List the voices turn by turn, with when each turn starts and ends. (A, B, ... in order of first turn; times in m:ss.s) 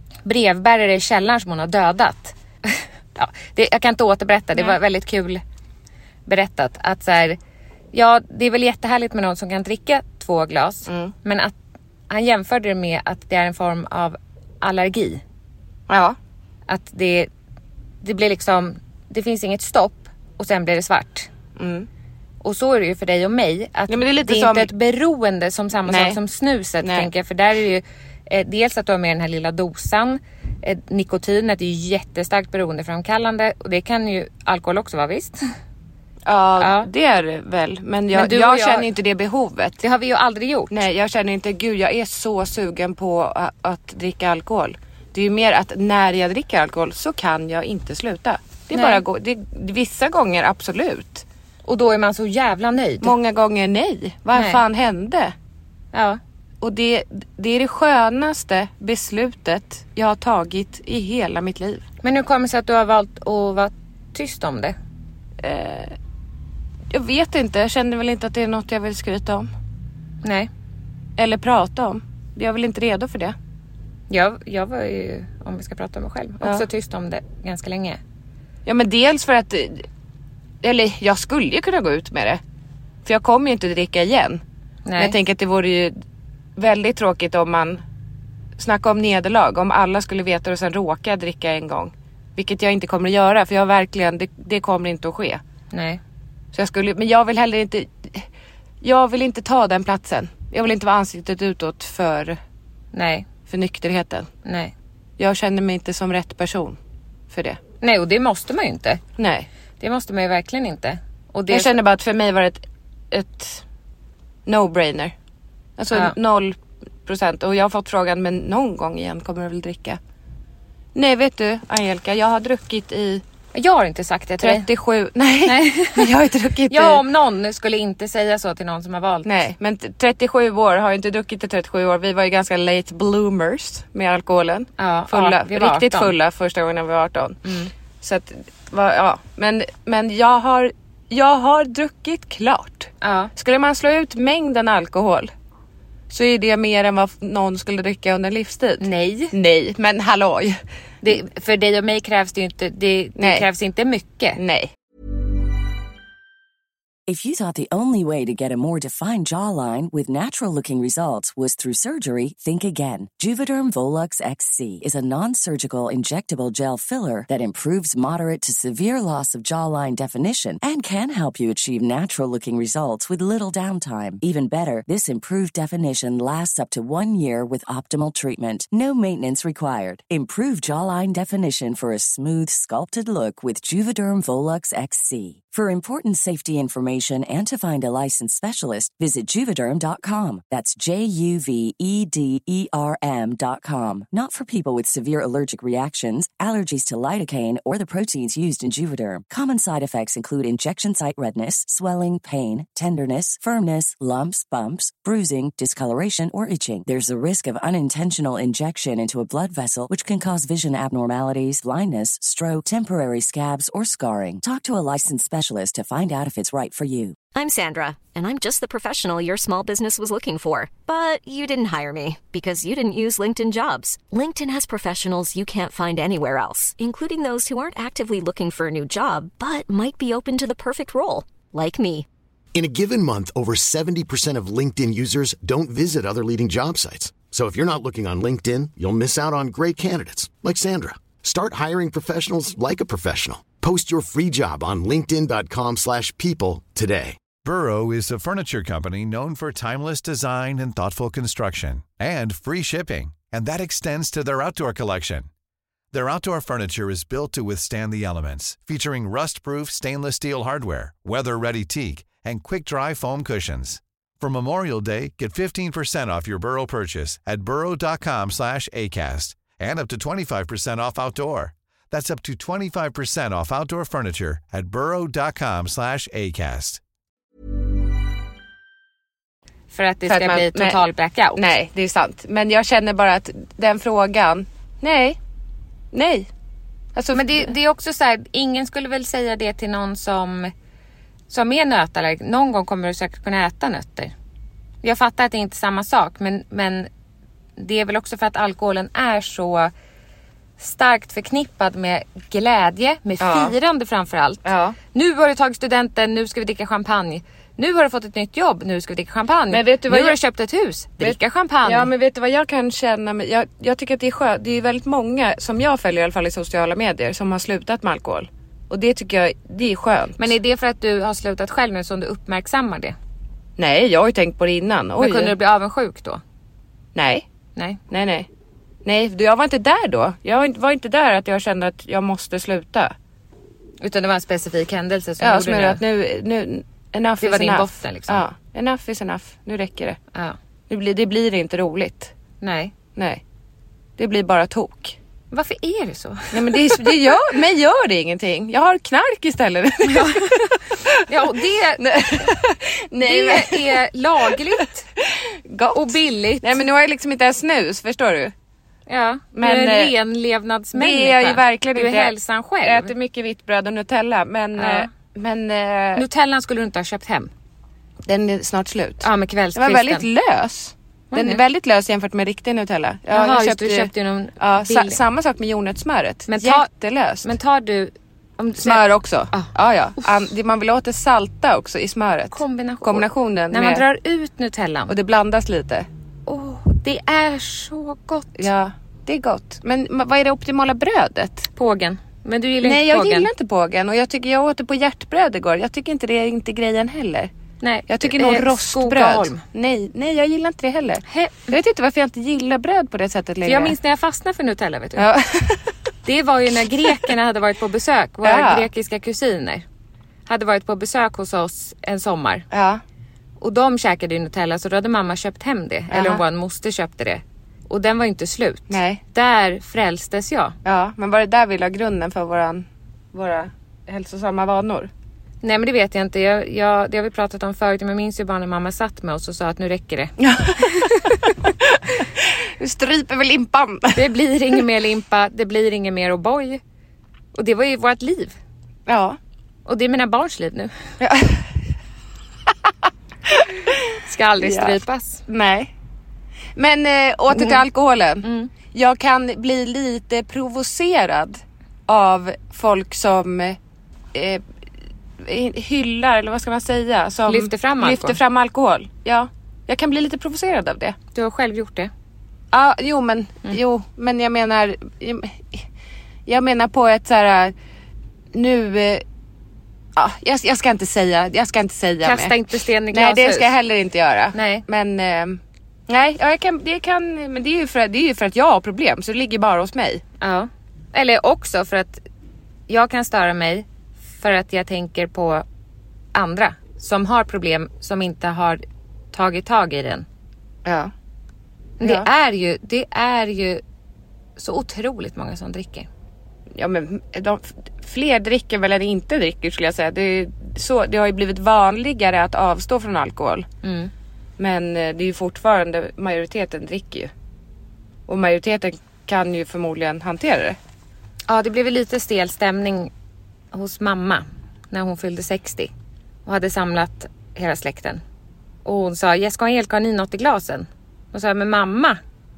0:00.2-0:05.4 A
0:06.3-0:07.4 A
0:07.9-0:11.6 A
0:10.9-0:11.1 B
0:12.1-0:15.2 A
0:15.9-0:16.2 B
0:16.7-0:17.3 A
0:18.0-0:21.3 A
0:21.6-0:21.9 B
0:22.4-0:35.4 A
0:23.9-0:24.7 B
0:25.9-0:26.2 B
0:26.8-0:27.1 B
0:36.2-0:39.8 B
0:36.6-0:36.9 A
0:38.1-0:38.9 A
0:39.8-0:40.8 A
0:40.7-0:51.2 B
0:48.7-0:49.0 A
0:51.7-0:53.2 A
0:53.0-0:55.3 B
0:54.3-0:54.6 A
0:55.9-0:56.2 A
0:56.6-1:01.8 B
1:02.0-1:04.8 A
1:05.4-1:06.0 B
1:06.9-1:09.5 B
1:10.2-1:10.5 A
1:11.2-1:13.4 B
1:14.1-1:18.0 A
1:16.4-1:16.7 B
1:18.6-1:19.9 B
1:20.6-1:22.4 B
1:23.0-1:24.4 B
1:24.8-1:25.2 A
1:25.0-1:26.0 B
1:26.6-1:27.8 B
1:28.6-1:35.4 B
1:35.7-1:36.0 A
1:36.5-1:38.3 B
1:38.8-1:42.4 B
1:42.9-1:43.3 A
1:43.5-1:44.3 B
1:44.4-1:44.7 A
1:45.2-1:46.8 B
1:47.3-1:47.6 B
1:47.8-1:49.0 A
1:49.2-1:49.5 B
1:49.8-1:51.7 A
1:51.5-1:53.6 B
1:54.5-1:55.2 B
1:55.8-2:00.0 B
2:01.0-2:03.2 B
2:03.5-2:04.7 A
2:04.4-2:07.0 B
2:05.4-2:06.1 A
2:06.7-2:09.4 A
2:09.2-2:17.4 B
2:14.8-2:16.1 A
2:17.4-2:17.7 A
2:18.0-2:25.3 B
2:23.0-2:23.3 A
2:26.1-2:30.6 B
2:28.8-2:29.3 A
2:31.0-2:34.4 A
2:33.2-2:33.5 B
2:34.4-2:34.7 B
2:37.1-3:37.2 C
3:37.3-3:52.1 D
3:52.5-4:07.2 E
4:07.4-4:15.3 F
4:15.9-4:36.8 F
4:39.7-4:41.5 A
4:40.1-4:40.8 B
4:41.3-4:45.2 B
4:45.9-4:46.3 B
4:47.0-4:47.5 B
4:47.1-4:50.5 A
4:51.3-4:54.1 A
4:54.8-4:56.9 A
4:57.6-4:59.7 A
5:00.6-5:11.9 A
5:03.2-5:03.6 B
5:04.4-5:04.8 B
5:09.5-5:10.2 B
5:11.0-5:20.4 B
5:20.2-5:23.0 A
5:23.6-5:25.4 B
5:25.0-5:26.2 A
5:27.0-5:27.3 B
5:27.9-5:28.3 B
5:28.8-5:32.9 B
5:33.8-5:35.8 A
5:35.2-5:40.0 B
5:37.2-5:38.2 A
5:40.7-5:42.1 B
5:42.4-5:42.7 A
5:43.0-5:43.2 B
5:44.0-5:45.0 B
5:45.3-5:47.1 A
5:46.3-5:51.1 B
5:49.8-5:52.4 A
5:51.8-5:58.3 B
5:53.0-5:54.9 A
5:55.7-5:56.6 A
5:58.9-6:02.9 A
5:59.3-5:59.9 B
6:00.7-6:06.0 B
6:04.6-6:04.9 A
6:06.0-6:07.3 A
6:08.1-6:17.3 B
6:09.0-6:10.1 A
6:11.1-6:11.4 A
6:13.1-6:15.0 A
6:16.3-6:16.7 A
6:17.2-6:19.5 A
6:18.6-6:23.8 B
6:22.3-6:25.0 A
6:24.9-6:25.9 B
6:26.3-6:28.5 A
6:28.4-6:31.5 B
6:31.6-6:33.3 A
6:32.6-6:37.3 B
6:37.6-6:39.4 A
6:37.9-6:43.8 B
6:41.1-6:41.5 A
6:43.4-6:45.1 A
6:45.0-6:45.7 B
6:46.0-6:49.6 A
6:48.2-6:48.7 B
6:50.3-6:52.4 A
6:52.5-6:52.8 B
6:53.4-7:00.6 A
6:55.9-6:56.2 B
6:58.7-6:59.0 B
7:00.6-7:04.9 B
7:05.4-7:11.3 A
7:10.2-7:14.1 B
7:13.9-7:16.6 A
7:17.3-7:18.4 A
7:18.9-7:19.2 B
7:19.7-7:20.7 A
7:21.0-7:21.5 B
7:23.3-7:25.7 B
7:24.0-7:25.2 A
7:26.6-7:33.6 B
7:27.3-7:27.6 A
7:28.2-7:28.5 A
7:34.1-7:34.4 B
7:35.2-7:41.0 B
7:37.3-7:38.2 A
7:41.1-7:41.9 A
7:42.5-7:45.6 B
7:46.3-7:47.5 B
7:48.3-7:49.0 B
7:50.0-7:52.4 B
7:52.0-7:53.5 A
7:52.9-8:00.0 B
7:54.3-7:54.6 A
8:00.2-8:02.0 A
8:02.7-8:05.4 A
8:06.1-8:08.6 A
8:09.1-8:10.1 A
8:10.6-8:10.9 B
8:11.8-8:13.6 A
8:11.8-8:12.1 B
8:14.4-8:15.9 A
8:16.6-8:23.5 B
8:23.6-8:23.9 A
8:24.4-8:27.1 B
8:28.1-8:30.6 B
8:31.3-8:32.9 A
8:33.5-8:35.7 A
8:36.3-8:38.0 A
8:38.6-8:42.0 A